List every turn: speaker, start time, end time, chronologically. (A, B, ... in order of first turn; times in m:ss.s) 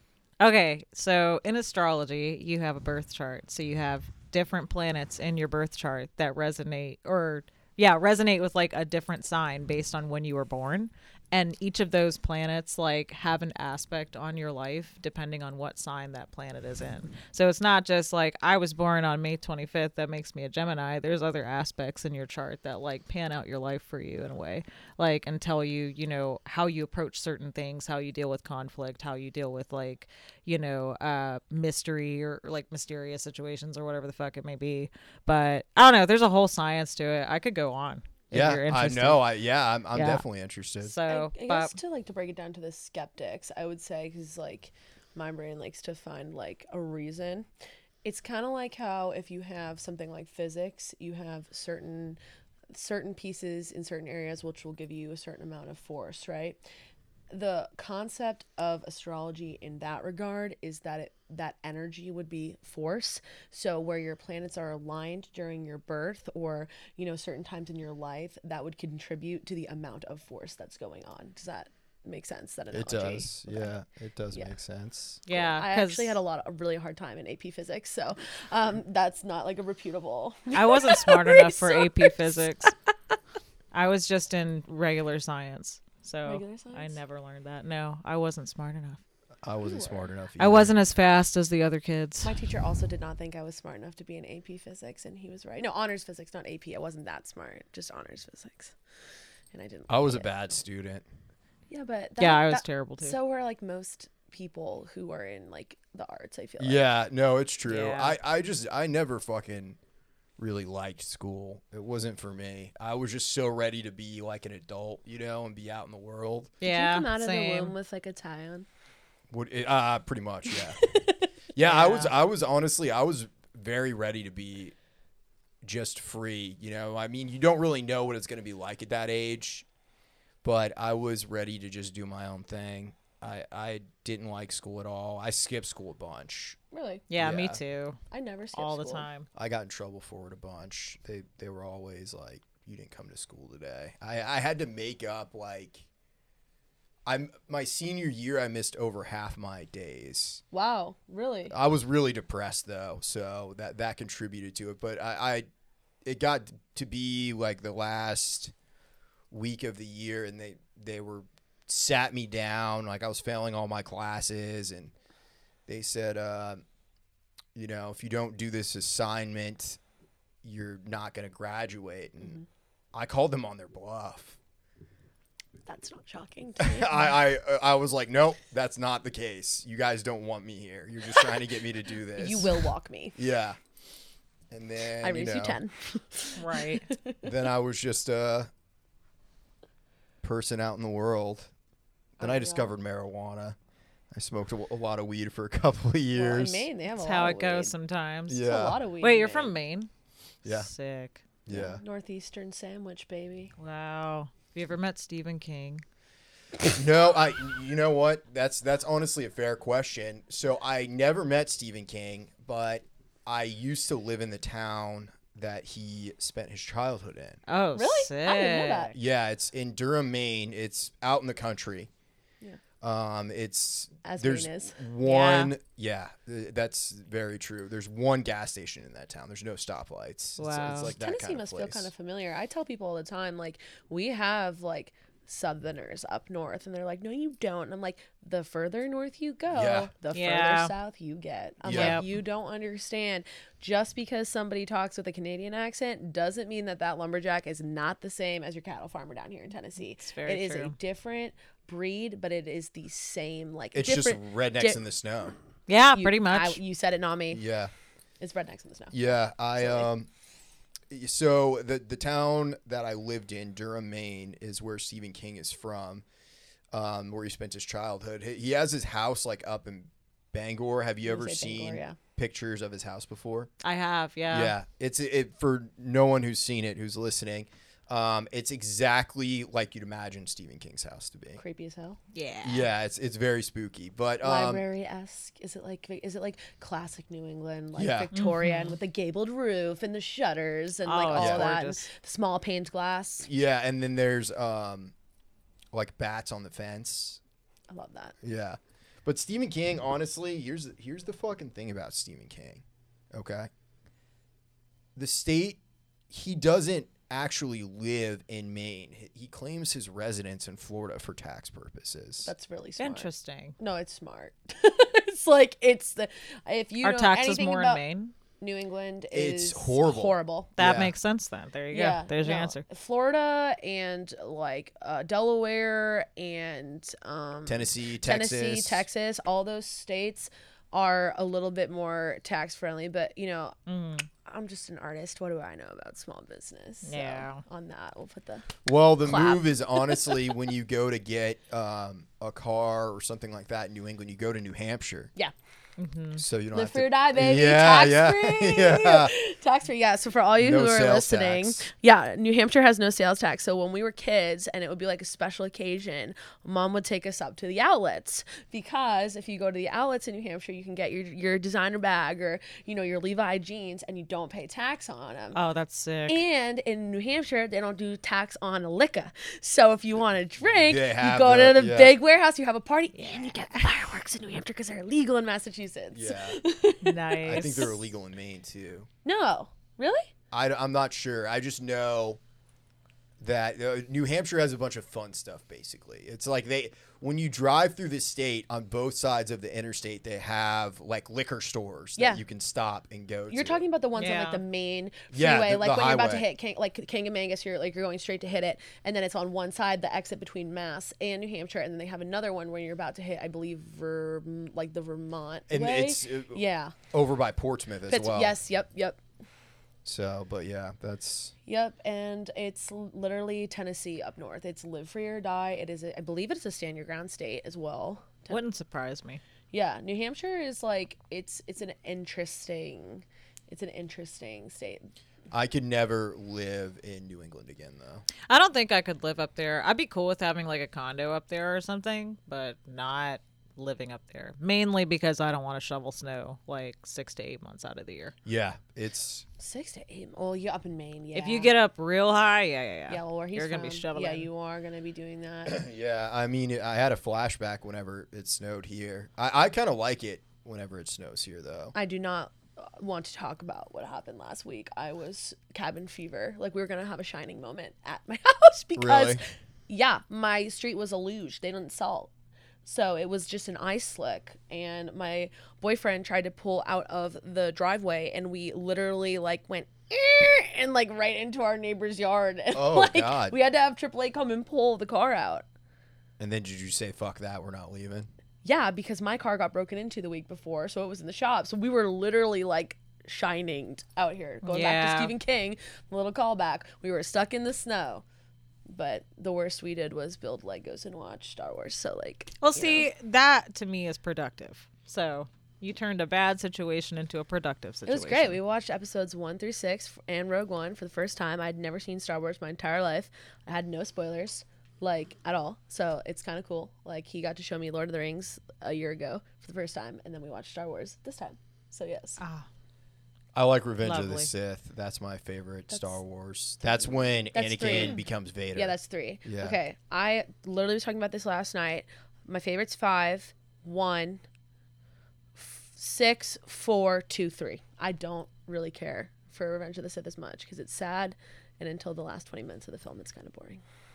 0:00.4-0:39.2 A
0:38.3-0:40.9 B
0:39.9-0:40.2 A
0:40.8-0:41.7 A
0:41.1-0:47.5 C
0:48.0-0:52.2 C
0:52.7-0:56.6 C
0:57.3-1:13.7 C
1:12.7-1:15.2 B
1:15.2-1:16.2 A
1:15.3-1:22.7 C
1:20.5-1:22.7 A
1:23.7-1:29.0 A
1:26.2-1:27.0 C
1:29.4-1:30.8 B
1:29.6-1:30.0 C
1:30.4-1:32.3 A
1:32.2-1:38.7 C
1:39.5-1:40.3 C
1:39.9-1:41.0 B
1:41.7-1:46.8 C
1:42.2-1:43.2 A
1:46.6-1:49.8 B
1:47.7-1:48.2 A
1:50.4-1:56.5 B
1:56.6-1:57.8 A
1:56.6-1:58.6 C
1:59.3-2:00.9 B
2:00.6-2:01.3 C
2:01.5-2:04.7 B
2:01.6-2:02.1 A
2:05.6-2:09.6 B
2:10.4-2:16.6 B
2:16.7-2:17.0 C
2:17.1-2:18.0 A
2:17.2-2:17.6 B
2:18.1-2:19.1 C
2:18.5-2:19.3 A
2:19.3-2:25.8 B
2:27.0-2:30.4 B
2:30.5-2:31.5 C
2:31.5-2:35.5 B
2:36.0-2:38.5 B
2:39.3-2:44.9 B
2:45.7-2:46.6 B
2:47.5-2:49.8 B
2:50.4-2:52.4 B
2:52.9-2:54.4 B
2:55.6-2:57.2 C
2:56.6-3:03.6 B
3:02.1-3:03.2 C
3:04.5-3:05.6 B
3:05.0-3:07.2 C
3:06.3-3:06.9 A
3:07.2-3:08.5 B
3:10.2-3:11.5 B
3:12.2-3:12.7 C
3:12.2-3:13.6 B
3:14.1-3:16.7 B
3:16.1-3:17.7 C
3:16.9-3:18.5 A
3:18.3-3:18.8 B
3:18.4-3:19.5 C
3:19.0-3:19.9 A
3:20.4-3:21.2 A
3:20.4-3:20.7 B
3:21.4-3:21.8 B
3:21.5-3:23.5 C
3:23.6-3:25.8 A
3:26.6-3:37.4 B
3:37.5-3:38.9 A
3:37.7-3:38.9 C
3:38.9-3:41.9 B
3:42.8-3:51.9 B
3:44.0-3:44.7 C
3:45.0-3:45.5 A
3:50.4-3:50.9 A
3:50.9-4:14.8 C
3:59.5-3:59.9 B
4:00.1-4:00.7 A
4:01.6-4:02.0 B
4:01.7-4:02.1 A
4:10.0-4:10.7 A
4:13.7-4:15.4 B
4:15.7-4:16.6 A
4:15.9-4:17.4 C
4:17.3-4:17.7 B
4:18.2-4:18.9 C
4:18.9-4:20.1 B
4:19.6-4:19.9 C
4:20.9-4:26.0 B
4:26.7-4:33.5 B
4:31.0-4:32.0 C
4:33.6-4:34.6 A
4:34.3-4:41.4 B
4:41.4-4:42.0 C
4:42.1-4:42.7 A
4:42.4-4:44.6 B
4:44.2-4:53.3 C
4:47.7-4:48.1 B
4:48.1-4:48.8 A
4:50.8-4:51.8 A
4:51.2-4:51.5 B
4:53.3-4:54.9 B
4:55.7-4:57.2 B
4:57.7-4:58.2 C
4:58.2-5:03.5 B
5:05.0-5:05.6 B
5:06.1-5:12.3 B
5:12.2-5:17.8 C
5:12.8-5:13.6 A
5:16.8-5:18.1 A
5:18.4-5:20.5 C
5:19.1-5:20.9 B
5:20.6-5:22.6 A
5:21.7-5:33.6 C
5:27.5-5:28.8 B
5:33.7-5:34.1 A
5:34.2-5:38.5 C
5:36.8-5:37.4 A
5:38.6-5:45.1 B
5:39.0-5:40.2 C
5:45.8-5:46.2 A
5:46.2-5:49.1 B
5:46.5-6:05.4 C
5:50.4-5:51.6 B
6:05.3-6:06.2 A
6:06.1-6:17.8 C
6:10.5-6:12.0 B
6:12.9-6:13.9 A
6:15.9-6:16.4 B
6:16.8-6:17.7 A
6:17.2-6:18.9 B
6:19.0-6:20.1 C
6:20.3-6:22.2 B
6:23.2-6:33.6 B
6:32.0-6:32.2 C
6:33.3-6:46.7 C
6:34.0-6:34.4 A
6:35.1-6:36.2 B
6:45.5-6:48.4 B
6:47.9-6:49.0 C
6:49.8-6:51.3 B
6:51.5-6:58.4 C
6:58.3-6:59.2 A
6:59.5-7:04.9 C
7:05.3-7:08.0 B
7:08.3-7:18.1 A
7:18.2-7:19.2 B
7:19.4-7:21.5 C
7:21.1-7:24.3 A
7:22.9-7:25.6 C
7:25.4-7:31.7 B
7:31.7-7:42.1 C
7:38.8-7:39.2 B
7:42.6-7:55.4 C
7:52.5-7:53.4 B
7:56.2-7:58.1 B
7:58.4-8:08.0 C
8:04.4-8:05.1 A
8:08.7-8:12.9 C
8:12.4-8:18.4 A
8:17.8-8:32.2 C
8:32.2-8:32.5 A
8:33.3-8:39.6 B
8:33.8-8:34.3 A
8:35.7-8:36.0 C
8:36.8-8:38.0 C
8:38.5-8:44.2 C
8:45.4-8:53.6 C